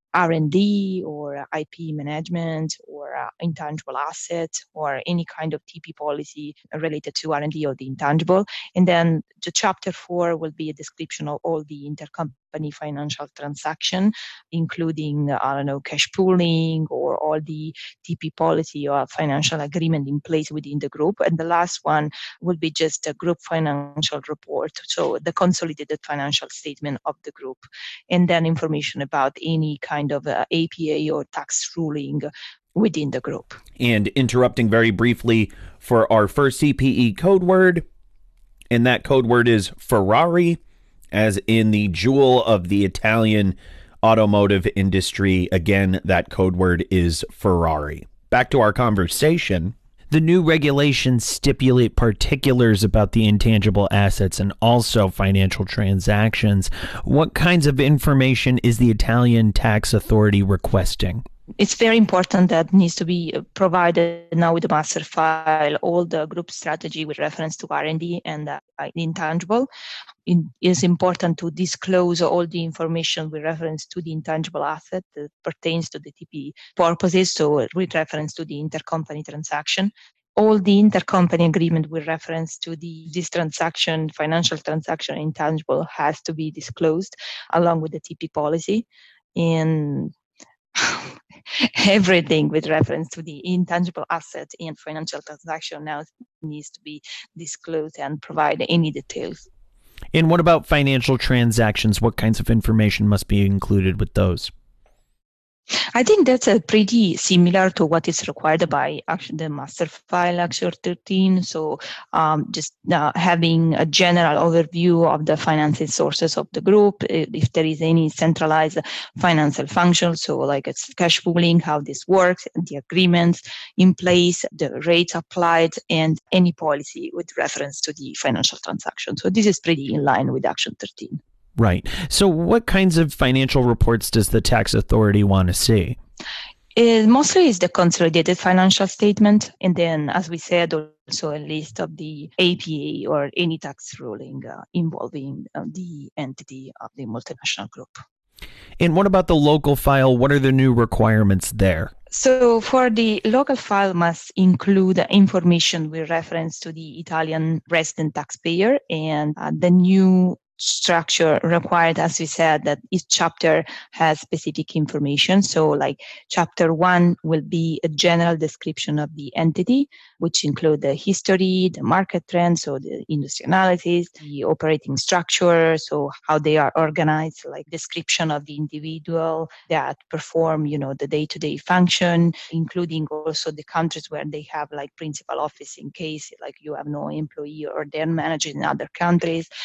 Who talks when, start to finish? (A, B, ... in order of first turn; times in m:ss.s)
0:00.1-0:33.6 A
0:33.8-0:37.8 B
0:38.7-0:40.6 B
0:41.1-1:01.2 B
1:01.6-1:09.7 A
1:10.2-1:30.1 A
1:30.8-1:39.4 A
1:40.1-1:44.5 B
1:45.9-2:11.2 A
2:11.6-2:16.0 B
2:16.8-2:28.0 A
2:28.8-2:31.9 B
2:32.1-3:09.5 A